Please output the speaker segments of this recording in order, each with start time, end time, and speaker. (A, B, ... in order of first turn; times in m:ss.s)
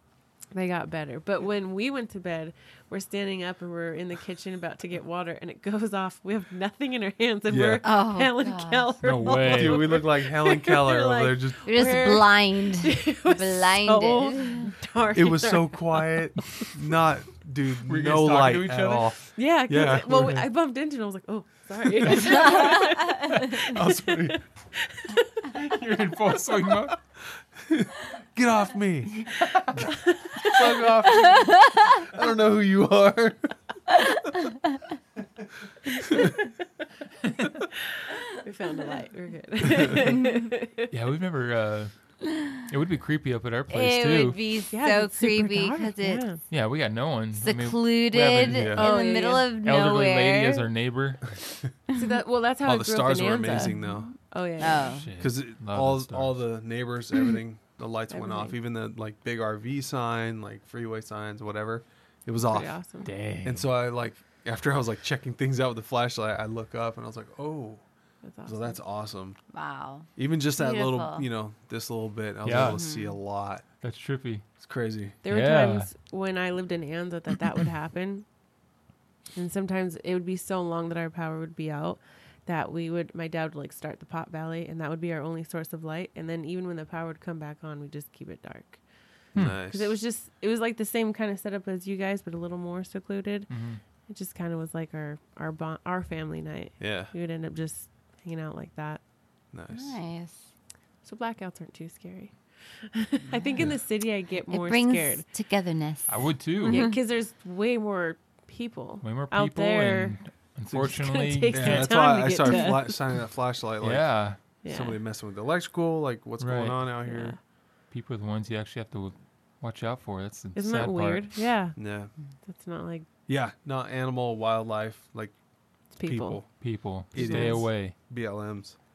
0:00.5-0:16.2 A
0:07.5-0:07.8 B
0:07.8-0:08.9 C
0:09.0-0:10.0 D
0:09.3-0:11.6 B
0:11.6-0:14.7 C
0:15.1-0:20.4 B
0:17.8-0:19.1 D
0:19.3-0:25.5 A
0:22.0-0:22.9 D
0:23.7-0:24.4 B
0:25.5-0:27.0 D
0:27.7-0:29.2 B
0:29.1-0:29.9 D
0:30.1-0:30.5 A
0:30.4-0:33.5 B
0:38.3-0:40.9 A
0:40.9-0:44.4 D
0:43.7-0:46.2 C
0:44.7-0:46.4 A
0:46.5-0:48.9 D
0:47.4-0:50.7 C
0:48.4-0:48.8 B
0:48.7-0:49.5 A
0:49.6-0:51.4 D
0:51.9-0:55.0 A
0:52.6-0:54.1 B
0:54.6-0:55.1 C
0:54.8-0:56.4 D
0:55.2-1:02.7 B
0:58.1-0:58.6 A
1:02.4-1:03.1 A
1:03.0-1:03.7 D
1:03.4-1:07.8 B
1:08.2-1:08.8 A
1:08.4-1:09.4 B
1:09.5-1:11.2 C
1:10.2-1:13.6 B
1:12.4-1:12.8 D
1:12.5-1:13.2 C
1:13.8-1:14.4 D
1:14.6-1:15.2 B
1:15.2-1:18.2 A
1:15.3-1:15.9 D
1:19.3-1:28.8 A
1:29.3-1:29.6 D
1:29.3-1:29.9 B
1:29.4-1:33.5 A
1:33.5-1:33.8 D
1:34.1-1:39.0 A
1:36.8-1:37.1 B
1:39.5-1:40.0 B
1:39.7-1:40.5 C
1:41.0-1:45.2 A
1:43.4-1:43.7 B
1:44.5-1:46.9 C
1:46.1-1:46.9 D
1:46.7-1:50.2 A
1:49.0-1:52.0 D
1:50.7-1:51.0 B
1:50.9-1:53.1 A
1:51.5-1:57.4 B
1:53.8-1:54.4 D
1:54.6-1:55.0 A
1:56.4-1:56.9 D
1:57.0-1:57.4 A
1:57.9-2:01.4 D
2:00.5-2:01.8 A
2:01.8-2:02.1 B
2:02.4-2:03.1 A
2:03.3-2:05.4 B
2:05.9-2:06.4 A
2:06.0-2:08.8 B
2:06.6-2:07.9 D
2:07.1-2:07.7 A